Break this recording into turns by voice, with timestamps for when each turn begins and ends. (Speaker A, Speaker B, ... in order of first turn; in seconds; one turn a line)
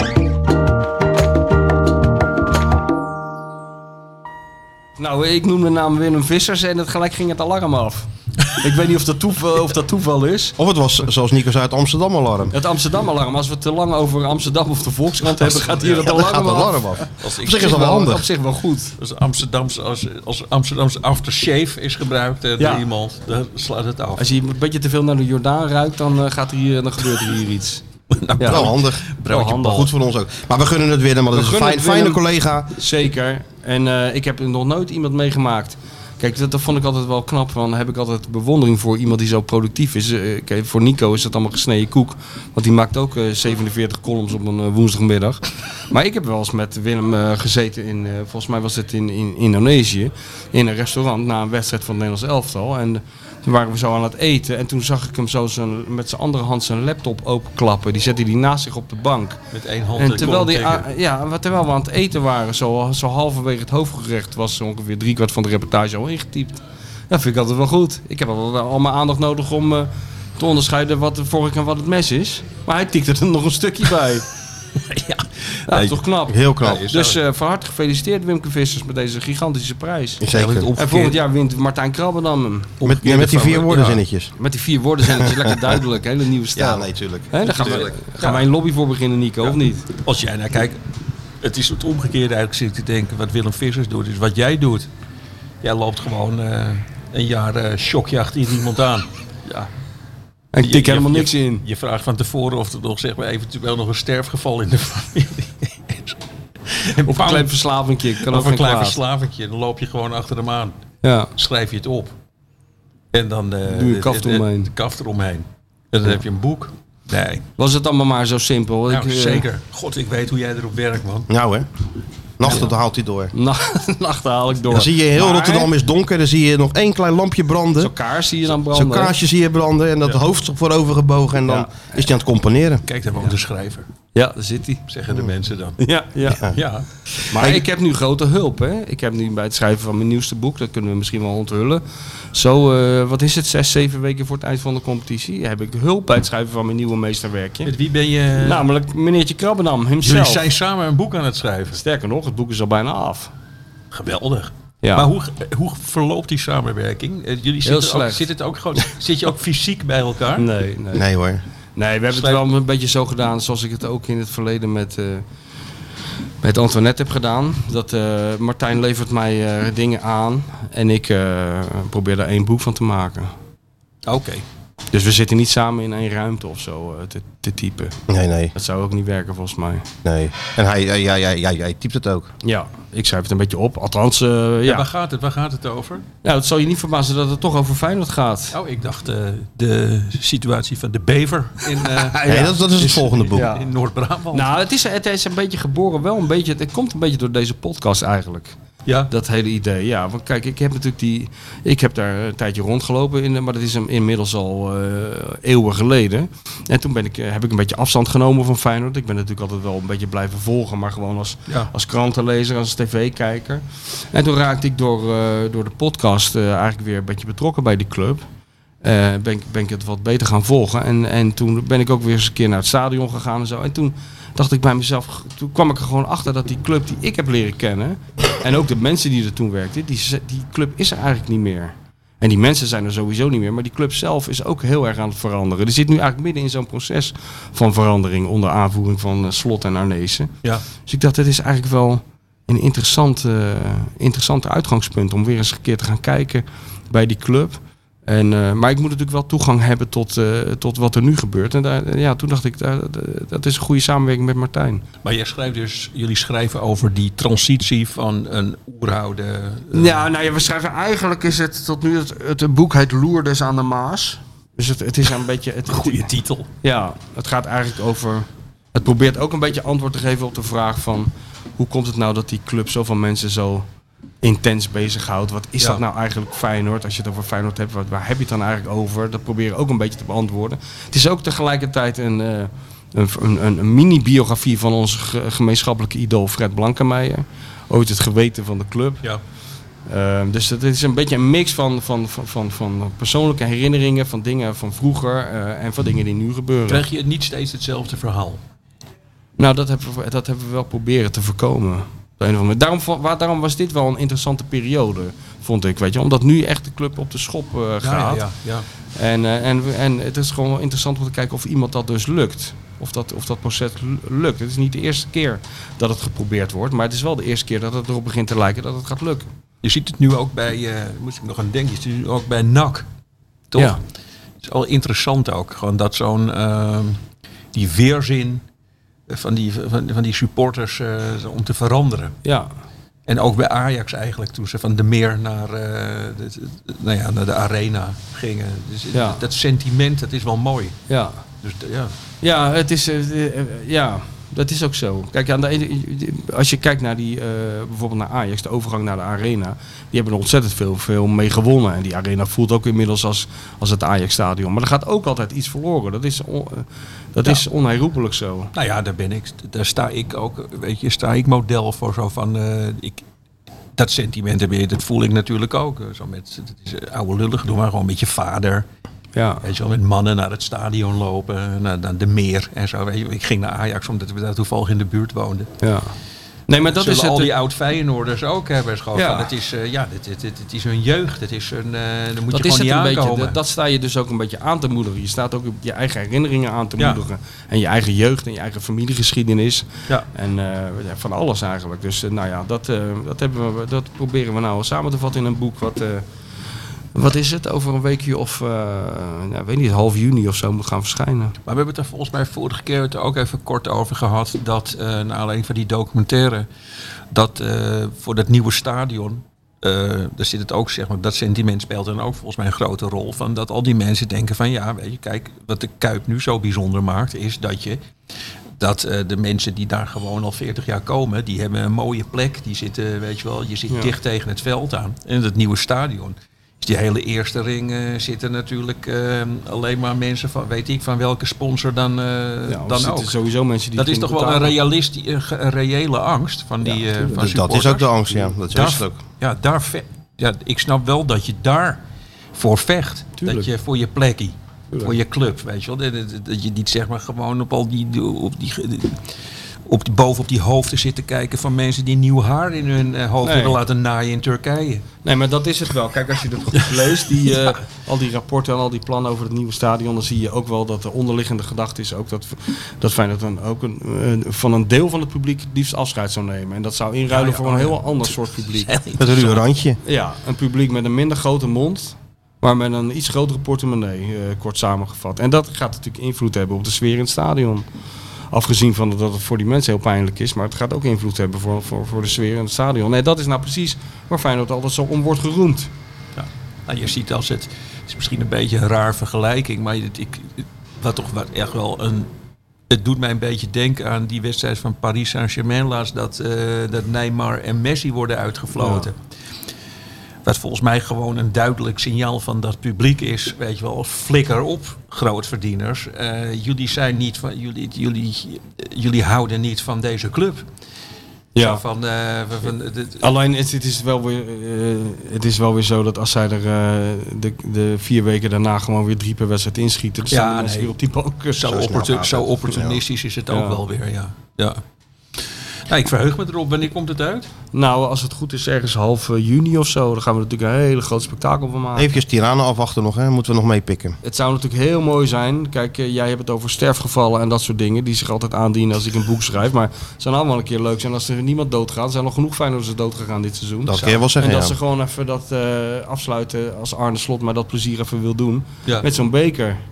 Speaker A: 5.0-10.6
Speaker B: 10.6-12.5
Speaker A: 12.5-16.9
Speaker C: 15.4-16.0
Speaker B: 15.8-18.2
Speaker C: 17.2-17.8
Speaker A: 17.5-18.9
Speaker C: 19.0-24.2
Speaker A: 22.6-22.9
Speaker A: 24.2-27.8
Speaker C: 28.1-29.9
Speaker A: 28.4-28.7
Speaker B: 28.4-32.8
Speaker A: 29.3-29.9
Speaker A: 31.3-32.2
Speaker A: 32.7-59.4
Speaker C: 59.5-60.9
Speaker A: 60.0-74.3
Speaker C: 74.8-76.0
Speaker A: 75.7-80.2
Speaker B: 76.3-76.9
Speaker C: 76.6-77.2
Speaker B: 80.2-80.7
Speaker C: 80.3-81.2
Speaker A: 80.8-83.8
Speaker B: 82.8-84.3
Speaker C: 82.8-84.0
Speaker A: 84.3-89.9
Speaker B: 85.1-85.6
Speaker B: 86.5-87.9
Speaker C: 87.6-88.4
Speaker C: 89.4-90.8
Speaker C: 91.4-94.9
Speaker C: 95.6-99.7
Speaker A: 100.5-101.6
Speaker C: 100.6-107.5
Speaker A: 107.0-109.0
Speaker C: 108.2-110.8
Speaker A: 111.0-111.3
Speaker C: 111.3-112.1
Speaker C: 113.1-117.4
Speaker A: 113.7-114.7
Speaker A: 117.6-119.5
Speaker C: 118.9-121.3
Speaker B: 121.3-121.7
Speaker B: 122.4-123.3
Speaker A: 122.5-122.7
Speaker A: 123.3-125.7
Speaker B: 124.7-127.9
Speaker A: 127.8-129.2
Speaker B: 128.7-132.8
Speaker A: 131.4-132.0
Speaker C: 132.8-133.9
Speaker A: 134.1-134.8
Speaker C: 134.9-135.8
Speaker A: 135.8-136.5
Speaker C: 136.4-137.5
Speaker A: 137.3-141.8
Speaker A: 142.3-147.7
Speaker C: 147.6-148.7
Speaker A: 148.4-150.4
Speaker C: 150.0-151.8
Speaker A: 151.8-153.3
Speaker C: 153.9-160.5
Speaker A: 154.8-155.1
Speaker A: 157.6-158.3
Speaker A: 160.4-161.0
Speaker B: 160.9-161.4
Speaker A: 161.8-165.2
Speaker C: 162.1-162.4
Speaker A: 166.4-173.3
Speaker C: 174.1-174.4
Speaker A: 174.9-178.0
Speaker B: 178.1-178.5
Speaker A: 178.5-179.9
Speaker B: 180.0-182.3
Speaker A: 182.4-184.9
Speaker C: 184.7-186.1
Speaker A: 186.2-188.6
Speaker C: 188.5-194.5
Speaker A: 191.8-193.7
Speaker B: 192.2-193.5
Speaker A: 194.3-198.6
Speaker C: 198.8-199.1
Speaker A: 199.1-218.2
Speaker A: 218.8-240.3
Speaker A: 240.8-254.8
Speaker C: 255.0-260.0
Speaker A: 259.7-266.1
Speaker C: 265.7-266.5
Speaker A: 266.6-273.6
Speaker A: 274.2-289.0
Speaker A: 289.9-296.8
Speaker C: 296.7-298.4
Speaker A: 299.4-308.2
Speaker C: 307.8-308.6
Speaker A: 308.9-319.3
Speaker C: 319.6-322.9
Speaker C: 323.5-323.8
Speaker C: 324.4-327.0
Speaker C: 327.5-328.4
Speaker C: 329.1-332.2
Speaker A: 332.2-332.5
Speaker C: 333.1-340.8
Speaker A: 338.9-339.2
Speaker A: 340.9-341.2
Speaker C: 341.4-341.9
Speaker A: 342.2-358.5
Speaker C: 358.5-363.0
Speaker C: 363.8-368.6
Speaker A: 369.1-369.4
Speaker C: 369.4-375.5
Speaker A: 375.6-375.9
Speaker A: 376.5-377.3
Speaker C: 376.7-383.4
Speaker A: 378.9-379.3
Speaker A: 382.3-396.0
Speaker A: 396.9-401.3
Speaker C: 401.4-406.5
Speaker C: 407.1-417.8
Speaker C: 418.6-433.1
Speaker A: 432.5-434.5
Speaker C: 433.8-437.9
Speaker A: 436.6-437.2
Speaker B: 437.1-438.9
Speaker C: 438.5-441.8
Speaker C: 442.3-449.1
Speaker A: 443.2-443.5
Speaker C: 449.6-454.8
Speaker A: 453.2-453.6
Speaker A: 455.0-468.7
Speaker C: 456.6-457.5
Speaker C: 467.1-469.5
Speaker B: 469.0-469.8
Speaker A: 469.8-477.6
Speaker A: 478.3-485.7
Speaker C: 486.1-492.1
Speaker C: 492.7-499.0
Speaker A: 498.6-498.9
Speaker C: 500.2-510.4
Speaker A: 511.3-511.6
Speaker C: 511.4-513.0
Speaker A: 513.0-521.5
Speaker C: 520.1-520.7
Speaker C: 521.3-524.6
Speaker B: 521.4-522.8
Speaker A: 523.3-523.6
Speaker C: 525.7-527.3
Speaker A: 527.5-532.0
Speaker B: 531.8-534.0
Speaker A: 534.0-549.6
Speaker B: 543.6-544.5
Speaker C: 543.7-544.0